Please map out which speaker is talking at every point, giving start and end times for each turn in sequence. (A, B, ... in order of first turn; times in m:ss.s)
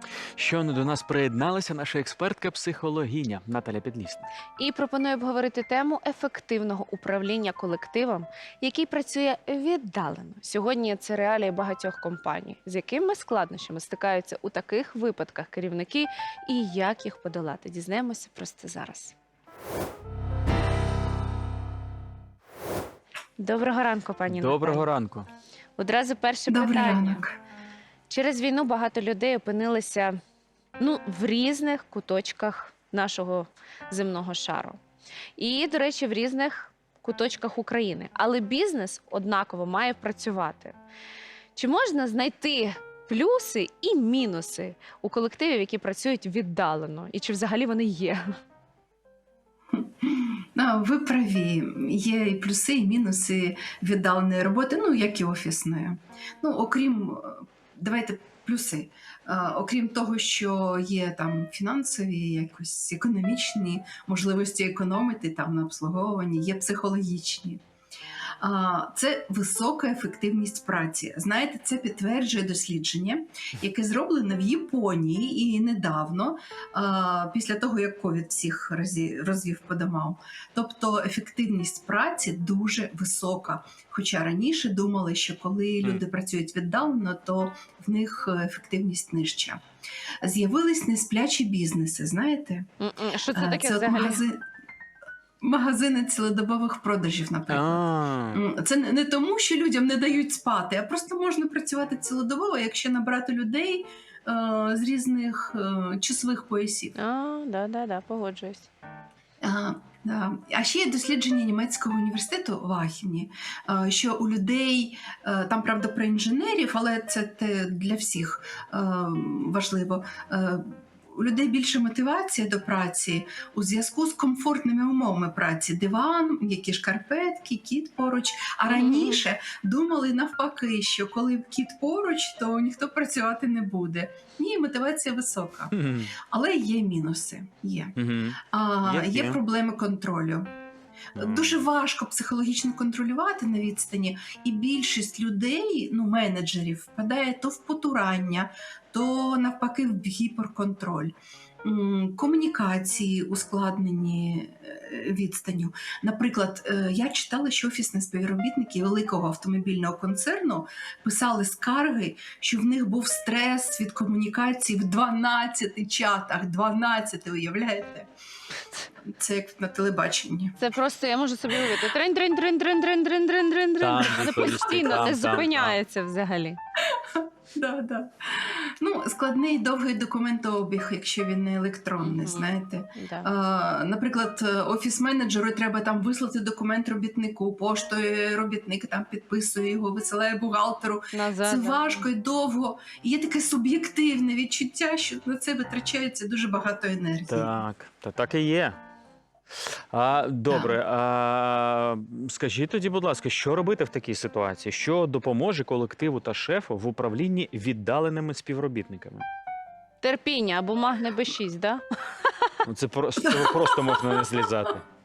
0:00.4-0:04.3 A
0:04.6-0:19.1 B
0:23.4-0:24.8 B
0:24.3-0:25.3 A
0:25.8-0:27.2 B
0:26.5-0:27.3 C
0:28.1-0:30.2 B
0:30.8-0:34.8 B
0:35.4-0:40.8 B
0:41.5-0:48.3 B
0:49.7-1:07.6 C
1:08.4-1:29.6 C
1:30.2-1:32.7 C
1:32.8-1:34.2 B
1:33.3-1:34.4 C
1:35.4-1:46.9 C
1:37.5-1:38.4 A
1:46.9-1:48.7 B
1:49.4-2:20.5 C
2:08.7-2:09.2 B
2:15.7-2:16.1 A
2:18.0-2:19.4 A
2:21.2-2:48.1 C
2:21.2-2:21.6 A
2:49.0-2:50.6 C
2:50.6-2:56.6 B
2:53.8-2:55.8 A
2:54.0-2:54.9 C
2:56.9-3:17.5 C
3:02.0-3:03.3 B
3:11.1-3:12.0 B
3:17.3-3:18.8 A
3:19.5-3:29.2 A
3:20.5-3:20.7 C
3:30.0-3:32.5 B
3:32.6-3:34.8 A
3:33.2-3:34.2 C